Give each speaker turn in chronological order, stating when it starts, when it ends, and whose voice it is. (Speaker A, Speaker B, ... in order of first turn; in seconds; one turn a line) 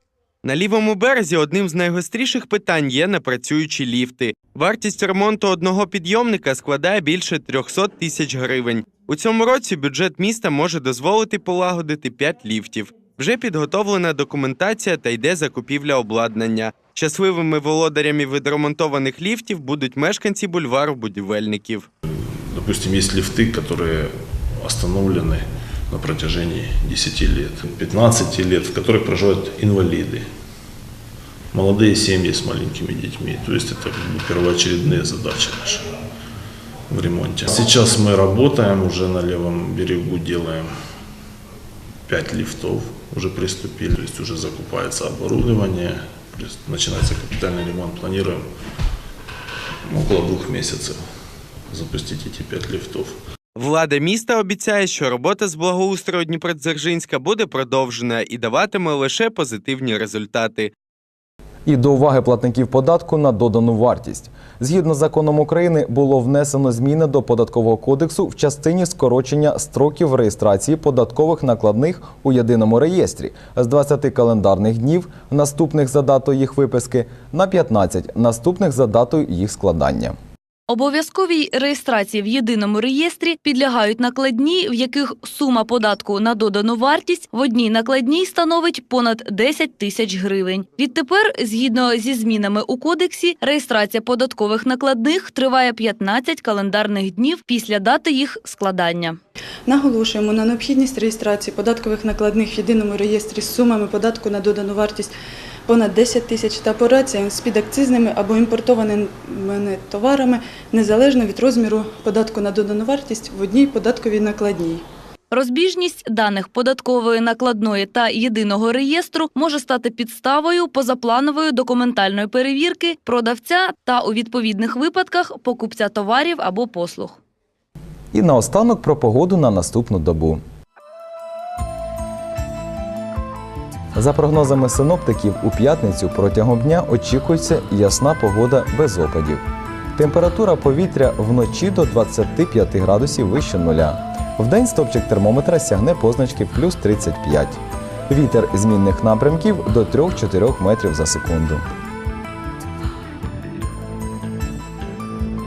Speaker A: 0.4-21.9
Speaker B: 22.2-30.2
Speaker B: 31.5-35.9
Speaker B: 36.9-40.7
Speaker B: 42.1-48.4
Speaker B: 49.9-51.0
Speaker B: 51.7-53.1
Speaker A: 53.5-60.7
Speaker C: 61.6-80.1
Speaker D: 80.7-99.2
Speaker E: 99.7-105.1
Speaker E: 105.7-114.8
Speaker D: 115.3-127.2
Speaker C: 128.1-130.4
Speaker C: 133.9-139.4
Speaker C: 139.9-147.6
Speaker C: 148.1-151.6